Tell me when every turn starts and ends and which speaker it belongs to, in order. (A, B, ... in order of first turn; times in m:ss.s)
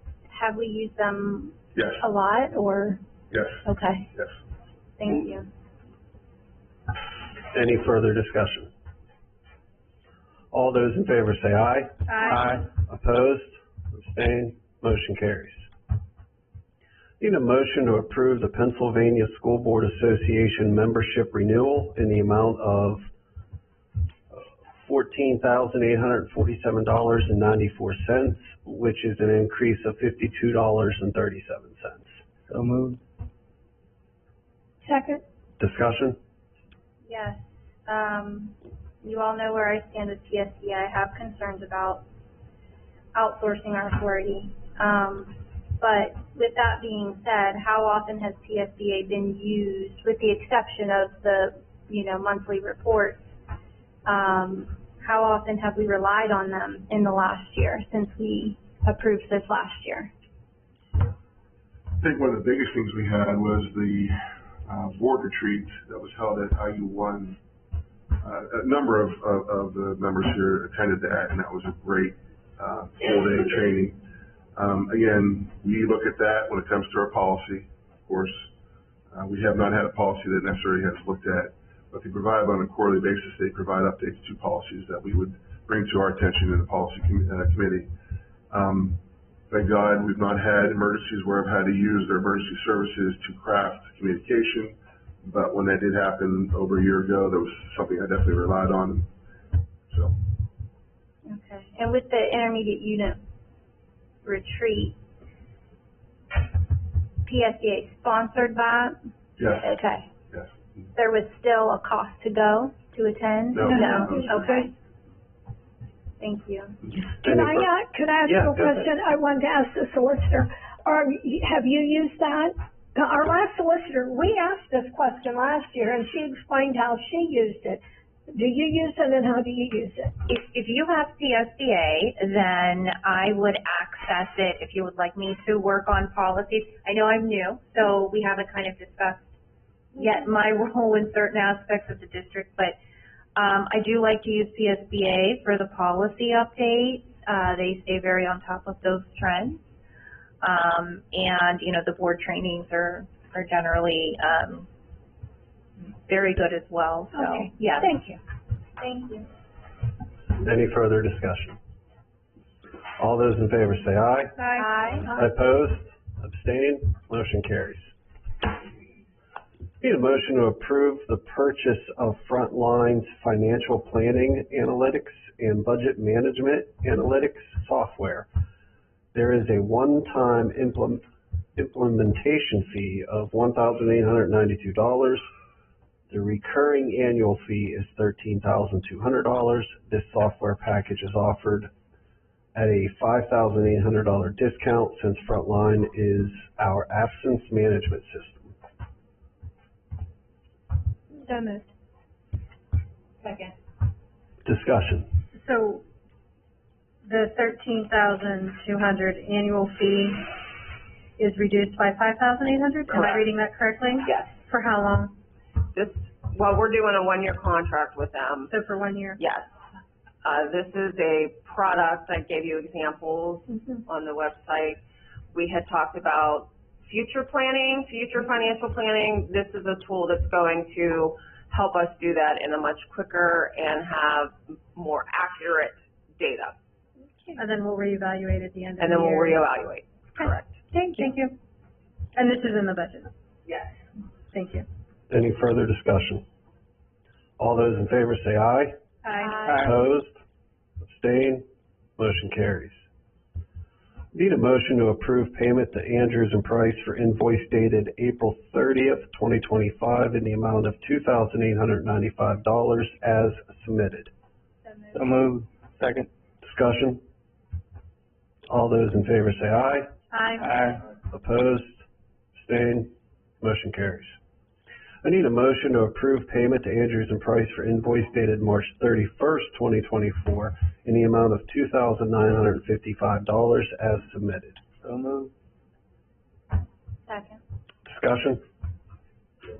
0:00.3-0:03.0 A
0:01.8-0:02.0 B
0:03.3-0:03.6 B
0:05.0-0:05.5 A
0:07.5-0:08.7 C
0:10.5-0:15.7 C
0:12.1-0:12.4 D
0:12.3-0:12.6 E
0:17.2-0:23.1 C
0:24.3-0:32.1 C
0:32.5-0:33.0 E
0:34.8-0:35.2 F
0:35.6-0:36.2 C
0:37.0-0:42.0 A
0:43.1-0:53.3 A
0:54.0-1:00.1 A
1:02.0-1:07.4 B
1:08.2-1:14.0 B
1:14.5-1:18.5 B
1:19.1-1:27.9 B
1:28.5-1:39.1 B
1:39.9-1:40.2 B
1:41.2-1:43.2 A
1:44.2-1:45.0 A
1:47.2-1:50.1 A
1:49.4-1:49.7 B
1:50.3-1:50.5 B
1:50.9-1:54.7 A
1:53.5-1:54.4 B
1:53.7-1:54.4 F
1:53.8-1:54.6 G
1:56.2-1:56.9 A
1:57.2-2:10.2 F
1:57.2-1:57.6 C
1:58.3-1:58.7 C
2:10.3-2:19.3 G
2:20.0-2:22.8 G
2:23.3-2:29.7 G
2:30.4-2:34.7 G
2:36.1-2:38.2 G
2:37.1-2:37.5 F
2:38.8-2:39.3 A
2:40.4-2:41.6 C
2:43.0-2:44.4 C
2:44.6-2:45.1 A
2:45.1-2:47.9 C
2:49.8-2:58.3 C
2:59.1-3:05.2 C
3:06.1-3:11.7 C
3:12.6-3:18.6 C
3:24.4-3:25.1 C
3:25.4-3:25.8 D
3:27.1-3:30.2 D
3:31.2-3:35.1 D
3:32.9-3:33.3 H
3:34.1-3:34.4 H
3:35.7-3:38.6 H
3:38.5-3:39.2 D
3:39.2-3:39.6 H
3:40.2-3:44.8 H
3:45.3-3:56.6 H
3:57.4-3:59.4 D
3:58.8-4:00.6 H
4:00.7-4:01.4 D
4:02.2-4:03.1 D
4:04.3-4:04.6 D
4:05.1-4:06.2 C
4:07.4-4:08.8 C
4:09.0-4:09.6 D
4:09.5-4:10.2 C
4:10.8-4:11.4 C
4:12.0-4:12.8 C
4:14.1-4:24.1 C
4:24.9-4:26.1 E
4:26.4-4:27.0 C
4:28.5-4:29.9 C
4:30.1-4:30.5 D
4:30.4-4:30.8 E
4:31.1-4:34.2 C
4:35.0-4:44.6 C
4:44.8-4:45.3 E
4:47.1-4:47.4 A
4:47.8-4:48.4 C